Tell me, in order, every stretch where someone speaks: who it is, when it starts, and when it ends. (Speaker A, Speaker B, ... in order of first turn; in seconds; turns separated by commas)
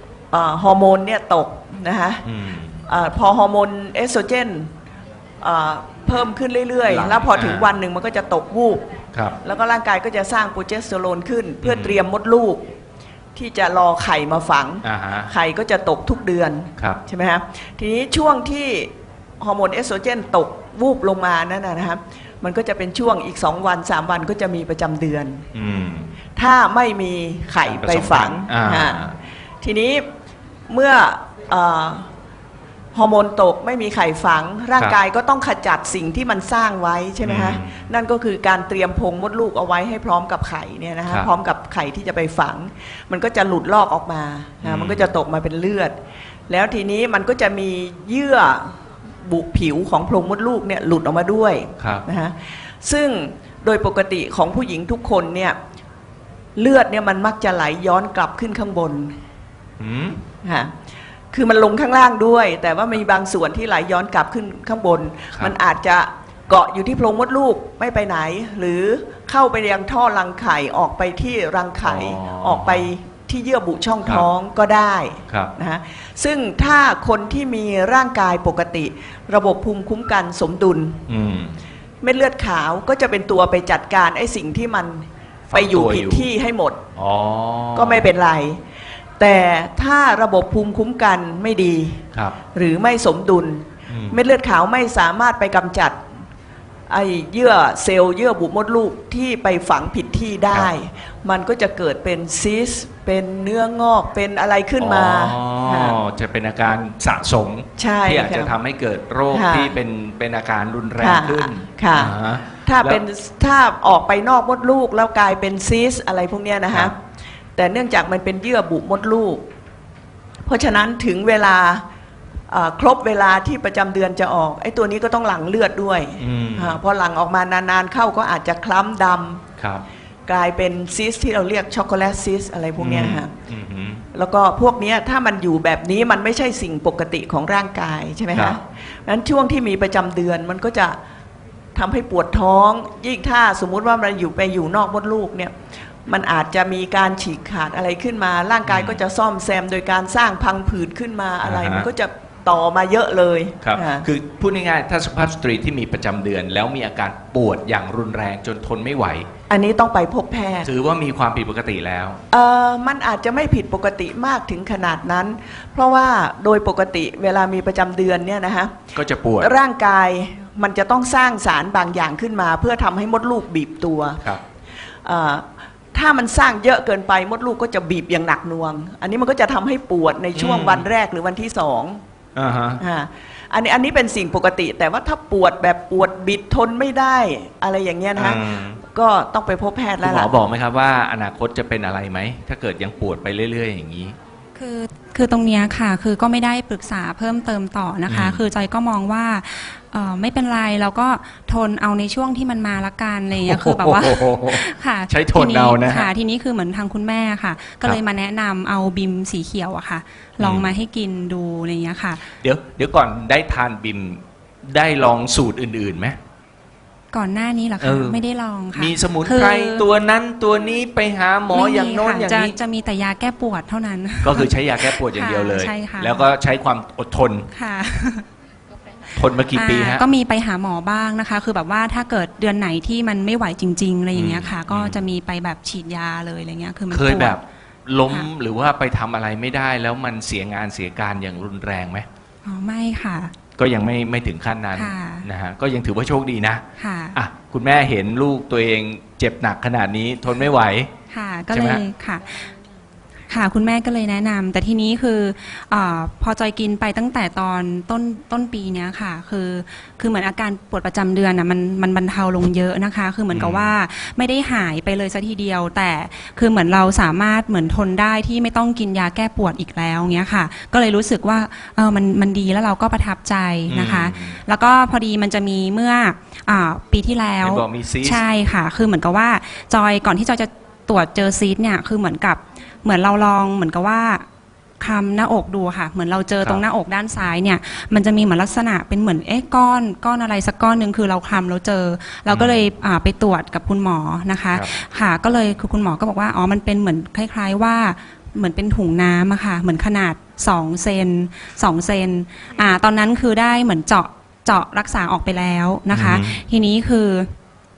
Speaker A: 0.3-2.2, Speaker B: 2.2-2.8, Speaker A: 2.9-4.7, Speaker A: 5.4-8.8, Speaker B: 6.9-7.8, Speaker A: 9.4-12.6, Speaker B: 11.6-12.1, Speaker A: 13.4-25.4, Speaker B: 14.8-15.3, Speaker B: 25.5-26.1, Speaker A: 26.4-30.1, Speaker B: 27.7-29.1, Speaker A: 30.7-32.1, Speaker A: 32.9-45.9, Speaker B: 37.2-37.9, Speaker B: 44.6-45.1, Speaker A: 46.5-55.6, Speaker B: 51.8-52.0, Speaker A: 56.6-59.1, Speaker B: 59.8-60.2, Speaker A: 60.4-60.7, Speaker A: 61.3-81.0, Speaker B: 71.8-72.9, Speaker B: 81.1-81.6, Speaker A: 82.0-86.8, Speaker B: 85.5-86.3, Speaker B: 87.0-88.1, Speaker A: 87.8-88.6, Speaker A: 89.2-96.0, Speaker B: 93.9-94.2, Speaker A: 96.9-106.0, Speaker B: 104.8-113.0, Speaker A: 107.8-108.6, Speaker A: 109.3-109.7, Speaker A: 111.0-112.1, Speaker A: 112.7-116.9, Speaker A: 117.6-119.5, Speaker A: 120.5-121.8, Speaker A: 122.5-129.4, Speaker B: 126.2-126.8, Speaker B: 129.6-129.8, Speaker A: 130.3-133.3, Speaker B: 132.8-134.0, Speaker A: 134.1-141.0, Speaker A: 141.8-145.5, Speaker A: 146.1-154.1, Speaker B: 148.7-149.0, Speaker B: 151.4-151.9, Speaker B: 153.6-159.3, Speaker A: 159.5-160.7, Speaker B: 160.6-162.2, Speaker A: 162.3-168.8, Speaker B: 168.9-169.5, Speaker A: 169.4-174.2, Speaker A: 175.0-182.0, Speaker B: 180.4-180.9, Speaker B: 182.3-182.8, Speaker A: 182.8-190.3, Speaker B: 188.2-188.8, Speaker B: 190.0-194.2, Speaker C: 194.6-212.2, Speaker B: 198.1-198.4, Speaker B: 203.4-206.1, Speaker B: 210.4-210.7, Speaker B: 212.4-216.2, Speaker C: 217.1-219.9, Speaker B: 217.8-218.2, Speaker B: 218.8-222.6, Speaker C: 221.5-226.3, Speaker B: 224.2-227.5, Speaker C: 227.5-228.3, Speaker B: 229.2-230.1, Speaker C: 229.5-237.4, Speaker B: 234.1-235.0, Speaker B: 236.9-242.1, Speaker C: 242.4-243.3, Speaker B: 243.6-250.9, Speaker C: 244.8-245.3, Speaker C: 246.8-247.2, Speaker C: 251.1-252.5, Speaker B: 251.5-251.8, Speaker C: 253.3-284.3, Speaker B: 263.3-263.7, Speaker B: 273.7-274.4, Speaker B: 277.4-278.2, Speaker C: 284.8-307.3, Speaker B: 292.3-292.6, Speaker B: 305.9-306.4